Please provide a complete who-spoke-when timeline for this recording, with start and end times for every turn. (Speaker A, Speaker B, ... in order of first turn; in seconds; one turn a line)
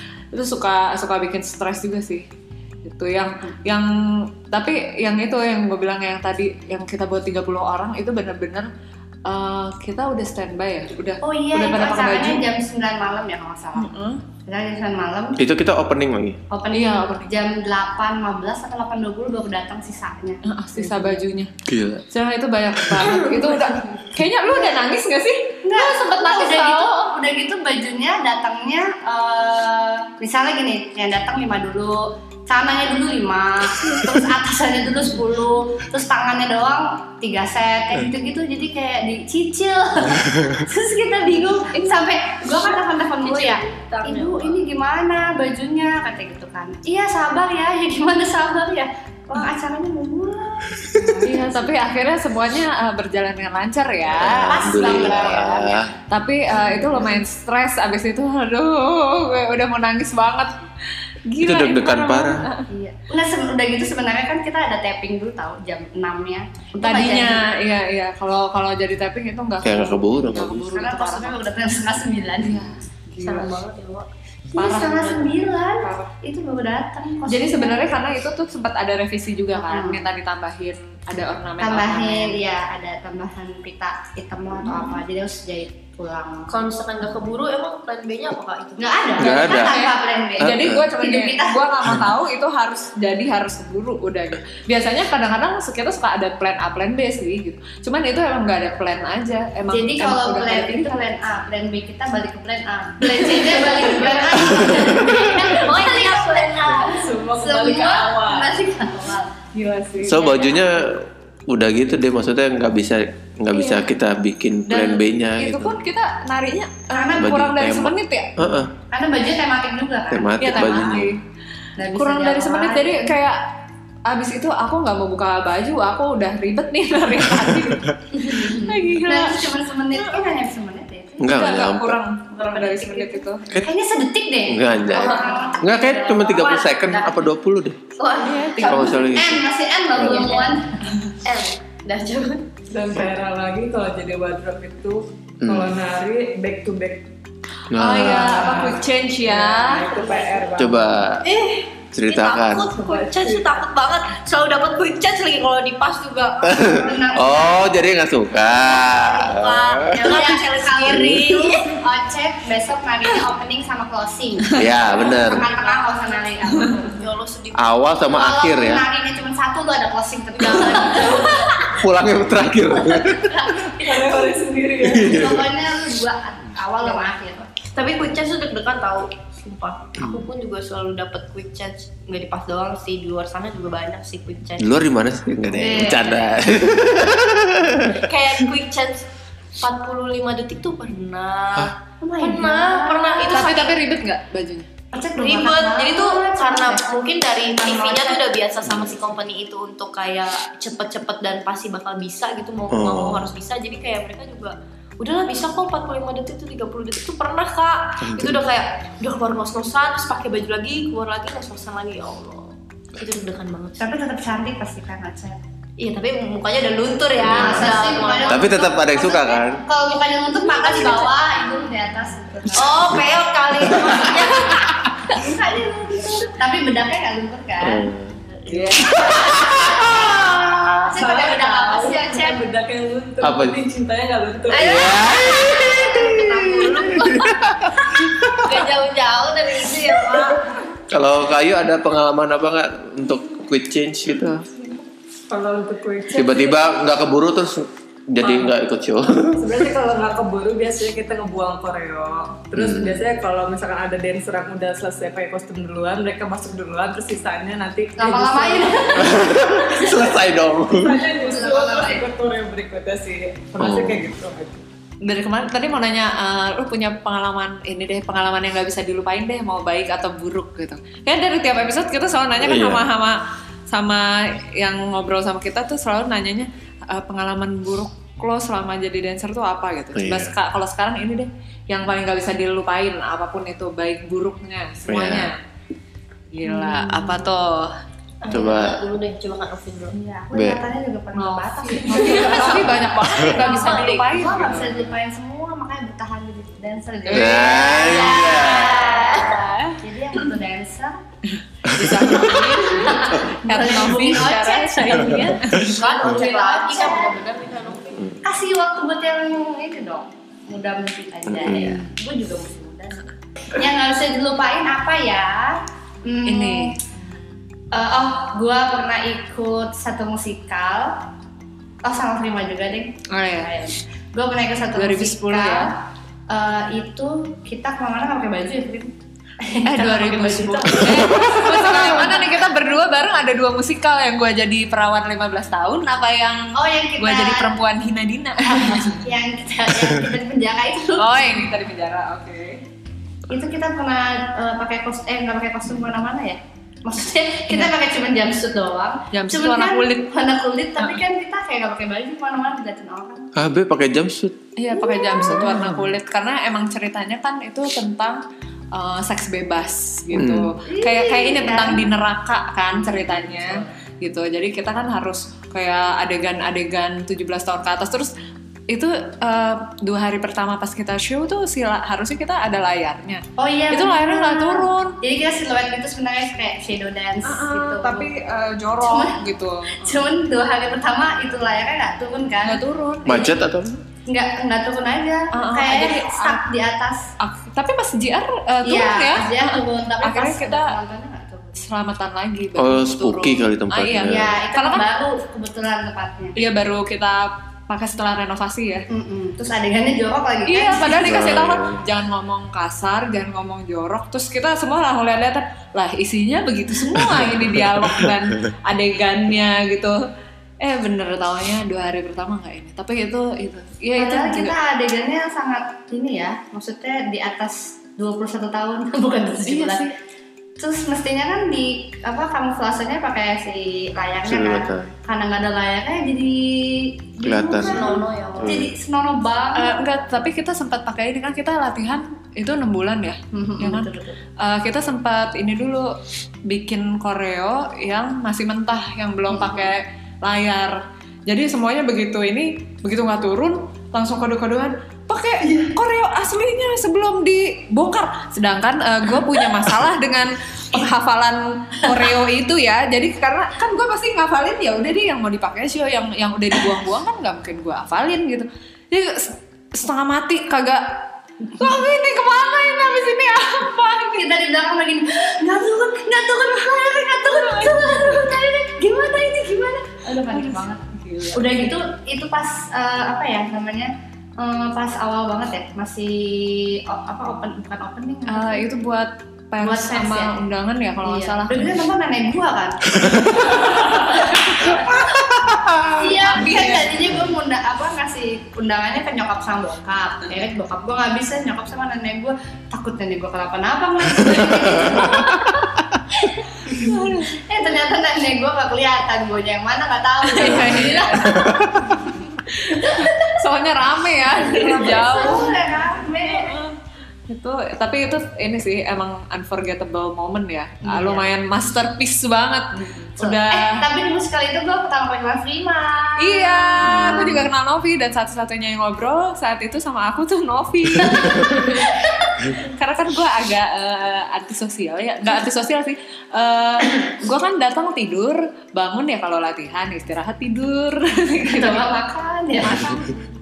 Speaker A: 0.3-2.3
Speaker A: 2.8-8.7
Speaker A: 9.3-12.4
Speaker B: 11.2-15.4
Speaker A: 13.8-14.2
Speaker C: 15.4-16.4
Speaker B: 16.5-21.2
Speaker A: 16.7-17.3
Speaker A: 20.4-21.5
Speaker C: 21.6-22.1
Speaker A: 22.1-27.1
Speaker B: 23.2-23.5
Speaker B: 25.6-51.8
Speaker A: 41.7-42.1
Speaker D: 43.2-44.6
Speaker C: 50.8-51.2
Speaker A: 51.2-55.2
Speaker C: 54.1-55.9
Speaker B: 54.5-55.8
Speaker A: 56.1-60.5
Speaker B: 56.5-57.2
Speaker A: 61.3-62.7
Speaker C: 61.4-62.5
Speaker B: 62.7-67.5
Speaker A: 66.8-71.4
Speaker C: 69.6-70.7
Speaker B: 70.6-72.7
Speaker A: 72.4-73.5
Speaker D: 73.2-74.1
Speaker B: 74.5-78.0
Speaker A: 74.6-76.1
Speaker A: 77.3-82.4
Speaker B: 79.5-80.0
Speaker B: 81.6-86.5
Speaker D: 86.5-89.3
Speaker B: 88.8-91.6
Speaker C: 89.2-89.8
Speaker A: 89.3-101.0
Speaker C: 90.4-90.8
Speaker B: 99.7-109.3
Speaker D: 103.1-107.1
Speaker C: 104.4-105.2
Speaker E: 106.8-108.5
Speaker A: 109.5-110.7
Speaker C: 110.0-115.8
Speaker A: 114.7-118.4
Speaker B: 116.9-117.3
Speaker C: 117.2-118.7
Speaker B: 118.9-120.9
Speaker C: 120.1-121.1
Speaker A: 120.4-121.2
Speaker B: 121.8-123.1
Speaker A: 121.9-123.4
Speaker A: 124.1-130.2
Speaker B: 128.2-131.4
Speaker C: 131.2-132.0
Speaker A: 131.3-133.5
Speaker B: 132.4-137.1
Speaker C: 134.5-137.8
Speaker D: 134.9-135.6
Speaker D: 136.3-136.9
Speaker D: 138.0-139.1
Speaker A: 138.2-138.9
Speaker C: 138.6-140.3
Speaker B: 138.7-140.8
Speaker D: 140.0-140.6
Speaker D: 141.2-142.5
Speaker E: 142.7-147.1
Speaker C: 145.4-145.8
Speaker C: 147.7-148.4
Speaker A: 147.8-149.9
Speaker E: 148.1-150.9
Speaker D: 149.9-150.4
Speaker C: 150.6-151.2
Speaker D: 151.2-156.6
Speaker C: 151.9-152.7
Speaker E: 152.6-153.7
Speaker C: 156.4-160.0
Speaker B: 156.6-157.7
Speaker D: 158.7-161.8
Speaker B: 160.0-167.0
Speaker C: 160.9-161.2
Speaker C: 164.6-165.5
Speaker D: 164.8-168.0
Speaker C: 167.6-168.8
Speaker B: 168.1-171.6
Speaker D: 170.3-171.7
Speaker C: 171.7-173.7
Speaker B: 173.4-174.1
Speaker E: 173.8-175.3
Speaker C: 174.8-175.5
Speaker B: 175.0-177.5
Speaker D: 177.6-184.8
Speaker C: 184.6-188.1
Speaker B: 185.5-186.2
Speaker D: 188.0-189.1
Speaker D: 189.6-193.8
Speaker B: 192.0-193.6
Speaker A: 193.3-194.7
Speaker B: 194.9-196.9
Speaker D: 195.2-213.9
Speaker B: 197.6-198.2
Speaker C: 198.7-199.0
Speaker C: 202.7-203.3
Speaker C: 208.0-208.4
Speaker B: 213.8-215.4
Speaker D: 215.8-218.6
Speaker C: 217.2-219.6
Speaker B: 217.3-223.1
Speaker D: 220.6-221.1
Speaker D: 222.5-224.7
Speaker C: 223.7-224.0
Speaker B: 223.9-227.9
Speaker C: 227.6-228.2
Speaker D: 228.3-230.2
Speaker A: 228.5-229.4
Speaker E: 228.5-228.8
Speaker C: 228.9-230.9
Speaker B: 230.9-232.4
Speaker E: 231.0-234.8
Speaker C: 233.2-233.6
Speaker D: 234.5-240.5
Speaker C: 234.5-238.6
Speaker C: 240.9-244.3
Speaker A: 244.2-244.5
Speaker E: 245.3-246.7
Speaker C: 246.1-249.6
Speaker E: 249.4-259.1
Speaker C: 252.6-253.0
Speaker B: 258.0-259.3
Speaker C: 258.9-261.0
Speaker E: 260.7-264.6
Speaker B: 261.2-262.0
Speaker C: 263.6-264.1
Speaker A: 265.0-285.3
Speaker C: 272.4-272.9
Speaker C: 279.9-280.3
Speaker C: 284.9-285.3
Speaker A: 286.3-287.7
Speaker B: 286.7-287.1
Speaker D: 288.2-290.0
Speaker C: 288.3-288.8
Speaker B: 289.9-301.0
Speaker C: 290.3-290.6
Speaker A: 291.1-294.8
Speaker D: 291.9-294.8
Speaker A: 297.1-297.9
Speaker C: 297.1-298.9
Speaker D: 297.6-299.8
Speaker C: 301.7-302.6
Speaker A: 301.7-305.8
Speaker B: 302.7-307.1
Speaker D: 304.8-308.2
Speaker B: 308.2-316.7
Speaker C: 311.3-311.9
Speaker A: 316.3-316.8
Speaker B: 317.7-321.0
Speaker B: 321.8-332.5
Speaker A: 323.1-323.5
Speaker A: 324.8-325.7
Speaker A: 329.6-339.0
Speaker B: 336.5-337.5
Speaker B: 338.5-341.4
Speaker A: 341.0-342.6
Speaker B: 343.3-353.3
Speaker A: 349.1-350.1
Speaker C: 353.4-354.4
Speaker A: 354.6-358.2
Speaker B: 354.8-355.5
Speaker A: 358.7-368.1
Speaker C: 360.1-360.5
Speaker B: 360.7-361.9
Speaker A: 368.7-375.0
Speaker B: 373.4-378.1
Speaker A: 377.2-380.0
Speaker B: 378.8-379.2
Speaker B: 379.8-382.6
Speaker A: 382.4-383.4
Speaker C: 383.1-383.8
Speaker B: 384.1-387.1
Speaker A: 385.3-386.4
Speaker A: 387.2-390.8
Speaker B: 388.6-391.6
Speaker A: 391.6-394.9
Speaker C: 392.6-394.3
Speaker B: 394.1-396.4
Speaker A: 396.4-398.9
Speaker B: 398.9-401.2
Speaker A: 400.5-410.0
Speaker C: 401.0-401.8
Speaker C: 407.1-408.1
Speaker A: 410.6-414.6
Speaker B: 414.0-419.9
Speaker A: 419.4-419.9
Speaker B: 420.6-429.8
Speaker C: 424.2-424.9
Speaker C: 427.2-428.7
Speaker D: 427.6-428.6
Speaker A: 429.6-436.0
Speaker B: 433.3-434.2
Speaker A: 436.5-463.7
Speaker B: 439.4-439.6
Speaker B: 463.6-470.8
Speaker A: 467.2-468.3
Speaker A: 470.1-471.8
Speaker B: 471.4-478.7
Speaker A: 478.3-481.8
Speaker B: 479.6-480.4
Speaker B: 481.0-484.9
Speaker A: 483.4-484.4
Speaker C: 484.6-486.2
Speaker B: 485.9-495.5
Speaker A: 486.2-487.0
Speaker C: 494.2-495.4
Speaker A: 495.1-495.5
Speaker B: 496.2-501.5
Speaker A: 496.7-497.4
Speaker A: 500.2-501.6
Speaker C: 500.4-501.9
Speaker A: 502.5-505.6
Speaker B: 502.6-503.3
Speaker B: 504.3-506.5
Speaker A: 506.1-513.8
Speaker B: 510.9-511.3
Speaker B: 513.2-517.3
Speaker A: 516.2-522.0
Speaker C: 516.8-517.5
Speaker B: 521.2-522.3
Speaker A: 522.6-531.9
Speaker B: 531.4-533.2